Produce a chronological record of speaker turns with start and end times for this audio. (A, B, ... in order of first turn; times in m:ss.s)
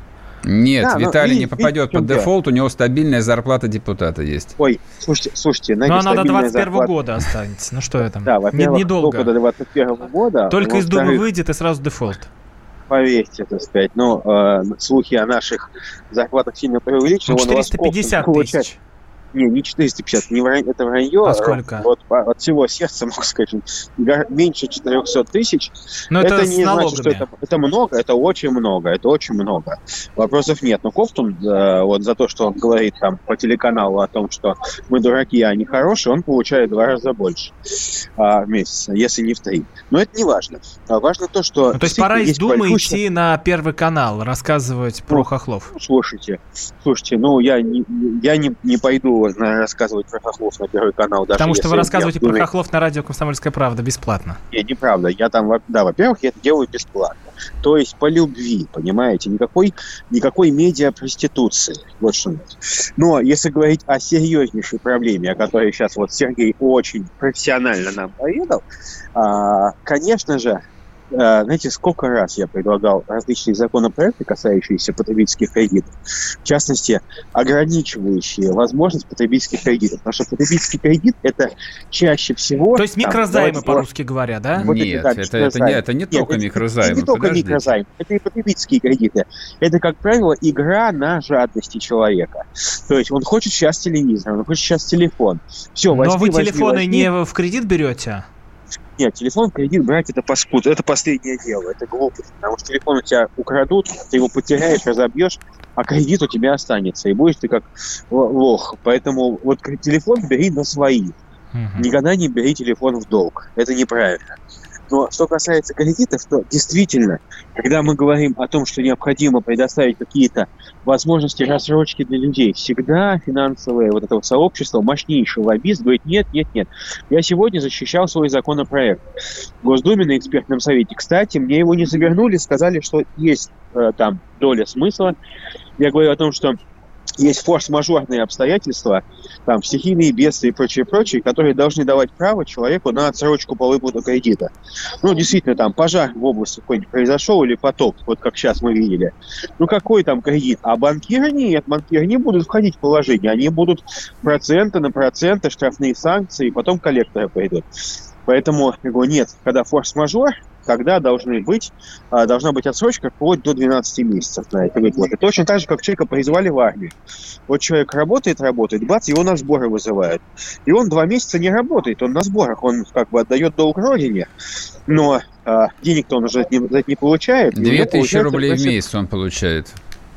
0:00.4-0:04.5 A
0:00.8-0:02.3 B
0:04.6-0:06.9 B
0:05.9-0:09.3 C
0:08.2-0:11.2 B
0:10.5-0:12.3 C
0:12.9-0:18.7 B
0:17.3-0:18.8 C
0:19.3-0:43.0 B
0:21.2-0:21.9 C
0:26.1-0:27.2 C
0:41.7-0:45.7 C
0:45.1-0:52.5 B
0:51.4-0:54.4 C
0:54.5-1:08.6 B
1:09.2-1:10.6 B
1:11.1-1:15.9 B
1:16.4-1:23.8 B
1:22.8-1:24.6 C
1:24.6-1:27.7 A
1:24.6-1:37.1 B
1:35.9-1:38.2 C
1:39.0-1:51.1 B
1:51.5-1:51.8 C
1:51.8-1:54.4 B
1:54.9-2:09.0 B
2:09.6-2:15.1 B
2:15.8-2:16.6 B
2:17.2-2:37.6 B
2:38.2-2:46.9 B
2:47.5-2:54.3 B
2:54.9-2:58.7 B
2:57.6-2:59.8 A